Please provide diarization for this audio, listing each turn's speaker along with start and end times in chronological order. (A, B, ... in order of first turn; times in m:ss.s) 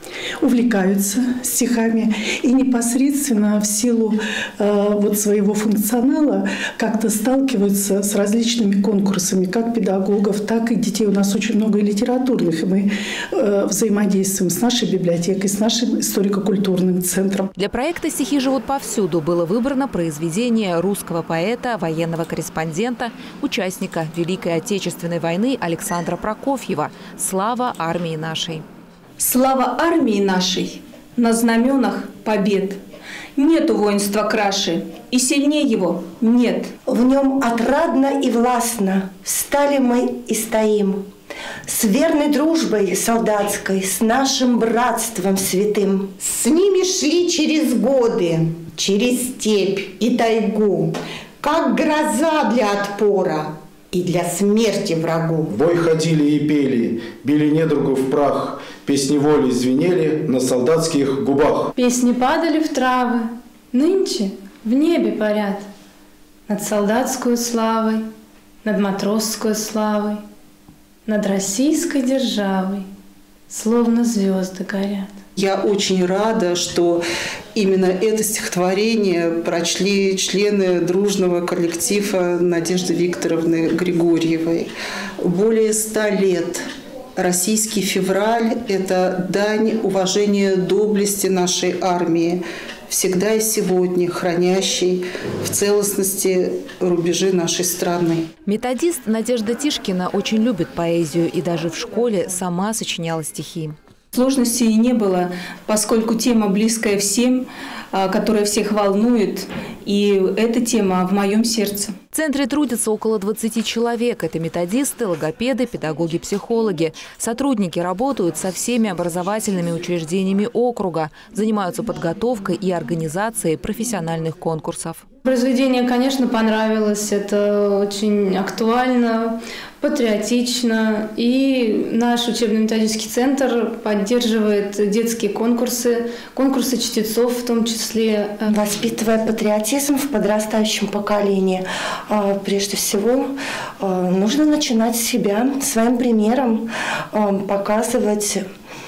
0:00.4-0:17.5 A
0:17.6-0:28.6 B
0:29.2-0:32.8 C
0:33.4-0:36.7 C
0:36.9-0:41.0 D
0:41.7-0:46.2 D
0:46.2-0:55.5 E
0:55.5-1:01.7 F
1:01.8-1:05.7 G
1:06.5-1:08.0 G
1:08.6-1:10.2 G
1:11.1-1:12.9 G
1:13.5-1:15.1 G
1:15.4-1:17.0 H
1:17.6-1:24.7 H
1:25.2-1:26.6 H
1:27.2-1:38.3 H
1:38.5-1:43.8 B
1:44.1-1:52.0 C
1:52.1-2:05.0 B
2:05.2-2:18.5 G
2:18.5-2:28.4 D